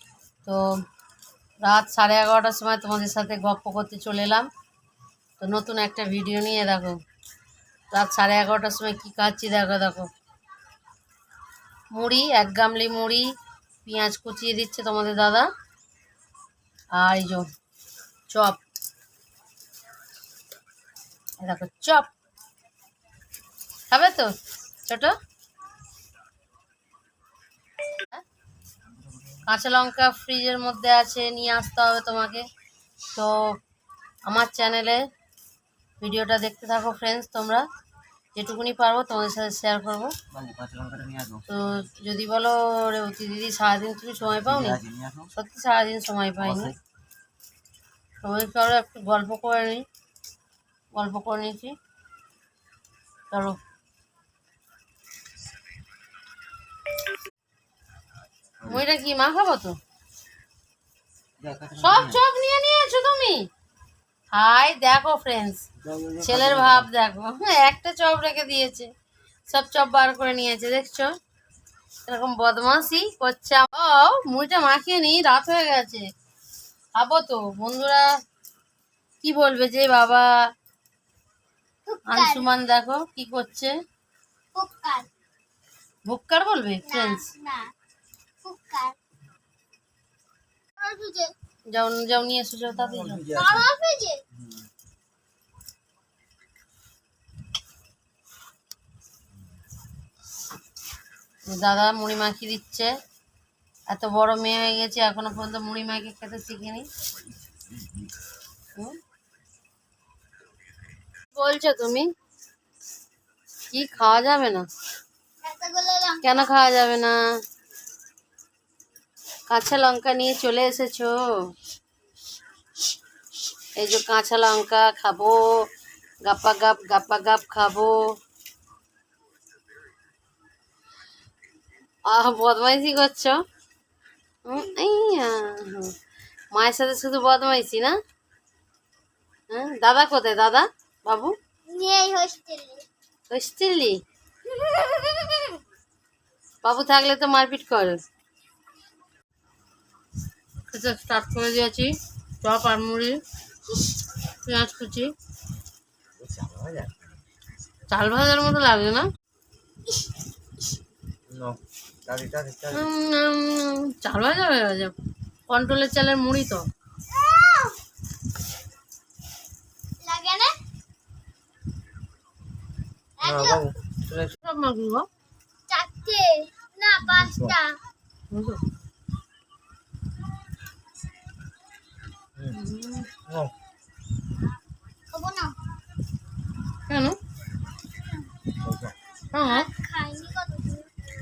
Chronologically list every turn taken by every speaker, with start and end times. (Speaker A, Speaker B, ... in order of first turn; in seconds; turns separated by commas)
Speaker A: 1.6-4.5, Speaker A: 5.4-7.0, Speaker A: 7.9-10.1, Speaker A: 11.9-13.3, Speaker A: 13.8-15.5, Speaker A: 16.9-17.5, Speaker A: 18.3-18.6, Speaker A: 21.4-22.1, Speaker A: 23.9-24.3, Speaker A: 24.9-25.1, Speaker B: 28.9-29.4, Speaker A: 29.5-32.5, Speaker A: 33.1-33.5, Speaker A: 34.3-35.0, Speaker A: 36.0-37.7, Speaker A: 38.4-40.1, Speaker B: 40.3-41.5, Speaker A: 41.5-44.8, Speaker B: 44.4-45.3, Speaker A: 45.3-46.7, Speaker B: 46.4-46.8, Speaker A: 48.2-49.9, Speaker A: 50.9-51.8, Speaker A: 53.3-53.6, Speaker B: 58.6-58.9, Speaker A: 58.7-59.8, Speaker B: 61.4-62.2, Speaker A: 61.8-63.5, Speaker A: 64.3-65.7, Speaker B: 65.8-66.9, Speaker A: 66.2-68.9, Speaker A: 69.5-71.1, Speaker A: 72.1-76.1, Speaker A: 77.0-78.1, Speaker A: 79.2-80.3, Speaker C: 81.9-82.5, Speaker A: 82.1-83.7, Speaker C: 84.5-85.1, Speaker A: 86.1-87.3, Speaker C: 86.9-87.7, Speaker C: 88.4-89.0, Speaker C: 90.8-91.3, Speaker A: 91.7-93.2, Speaker B: 92.7-93.7, Speaker C: 93.3-94.2, Speaker B: 94.4-94.7, Speaker A: 101.5-102.9, Speaker A: 103.9-106.9, Speaker B: 107.4-108.1, Speaker A: 111.3-112.1, Speaker A: 113.7-114.7, Speaker C: 115.4-116.6, Speaker A: 116.2-117.3, Speaker A: 119.5-121.5, Speaker A: 123.8-125.7, Speaker A: 126.2-128.1, Speaker A: 132.1-133.4, Speaker A: 134.5-135.9, Speaker A: 136.5-138.0, Speaker A: 139.5-141.3, Speaker C: 141.7-142.8, Speaker A: 143.3-144.0, Speaker A: 146.6-148.0, Speaker A: 150.7-153.2, Speaker A: 154.4-155.1, Speaker B: 156.2-157.2, Speaker A: 157.9-159.1, Speaker B: 161.3-162.9, Speaker A: 162.7-164.9, Speaker A: 165.5-166.7, Speaker C: 167.1-167.8, Speaker C: 170.0-170.5, Speaker C: 173.2-173.7, Speaker B: 173.2-174.3, Speaker A: 174.1-175.1, Speaker C: 175.7-177.8, Speaker B: 177.1-177.6, Speaker A: 178.3-178.6, Speaker A: 182.5-183.1, Speaker B: 183.3-183.5, Speaker C: 185.1-185.6, Speaker A: 186.9-187.2, Speaker B: 188.6-189.0, Speaker A: 189.3-189.7, Speaker C: 189.4-190.9